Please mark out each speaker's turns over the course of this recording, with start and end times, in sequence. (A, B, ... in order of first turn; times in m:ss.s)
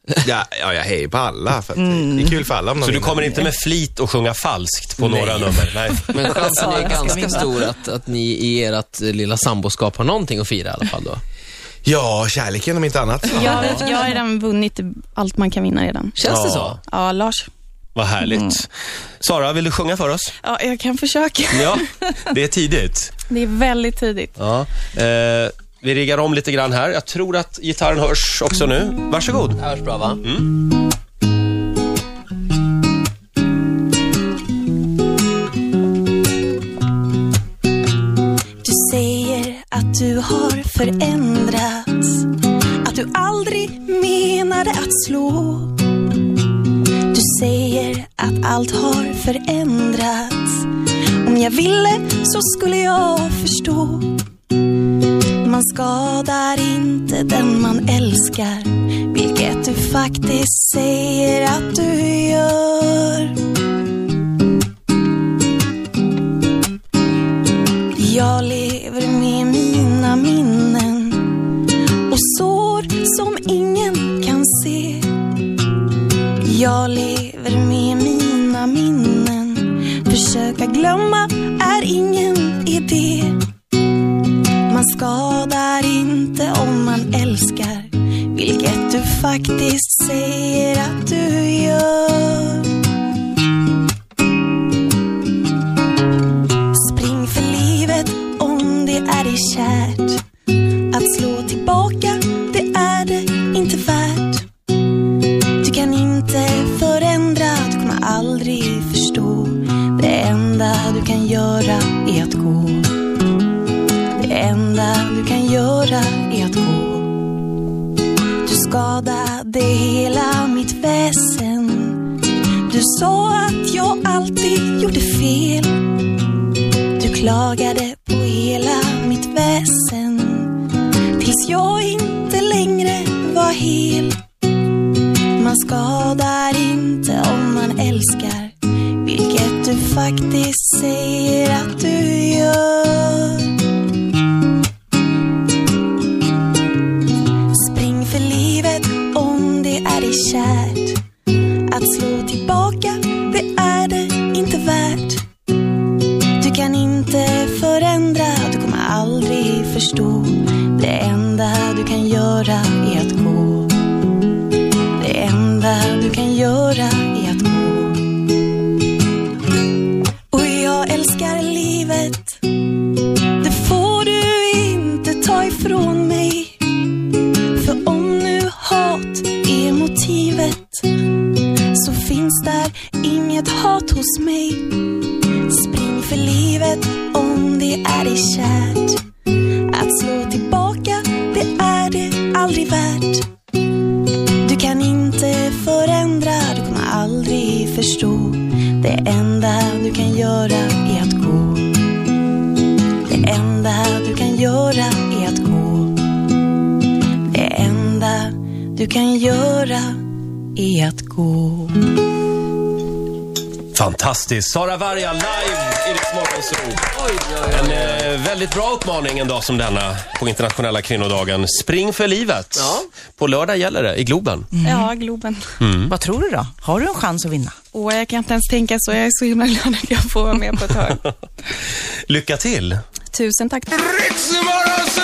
0:00.2-0:03.3 A
0:01.8-0:02.4 B
0:02.8-0:06.6 C
0:05.0-0:11.2 D
0:06.4-0:07.4 B
0:11.8-0:13.7 A
0:13.3-0:16.1 E
0:13.7-0:14.4 F
0:16.2-0:16.8 D
0:16.2-0:16.8 C
0:16.8-0:17.4 E
0:18.0-0:18.7 C
0:18.3-0:18.6 B
0:19.2-0:20.3 C
0:20.4-0:21.8 E
0:21.5-0:23.1 C
0:23.3-0:23.6 F
0:23.3-0:24.3 E
0:24.4-0:29.6 C
0:29.6-0:30.2 D
0:30.2-0:30.5 C
0:38.6-0:42.3 F
0:42.8-0:45.8 F
0:47.1-0:50.7 F
0:51.2-0:54.2 F
0:55.4-1:03.4 F
1:07.9-1:11.4 F
1:12.1-1:15.1 F
1:16.4-1:23.4 F
1:24.7-1:32.7 F
1:36.7-1:40.2 F
1:40.9-1:44.5 F
1:45.6-1:52.9 F
1:54.2-1:57.1 F
1:58.4-2:02.1 F
2:02.7-2:05.9 F
2:07.0-2:10.6 F
2:11.2-2:14.2 F
2:15.4-2:23.5 F
2:27.5-2:31.0 F
2:31.7-2:35.2 F
2:36.4-2:43.7 F
2:45.0-2:48.0 F
2:50.3-2:52.4 F
2:53.4-2:56.6 F
2:57.5-3:00.9 F
3:01.7-3:04.7 F
3:05.4-3:09.0 F
3:09.7-3:13.3 F
3:14.4-3:21.7 F
3:23.0-3:25.9 F
3:27.3-3:30.0 F
3:30.6-3:31.8 F
3:33.7-3:36.8 C
3:37.0-3:38.1 D
3:37.5-3:44.5 C
3:42.6-3:42.9 D
3:44.5-3:44.9 B
3:44.6-3:45.3 F
3:45.6-3:45.9 C
3:45.9-3:47.6 B
3:47.8-3:49.2 F
3:47.9-3:51.0 E
3:49.7-3:50.1 F
3:52.1-3:52.8 C
3:53.2-3:54.1 E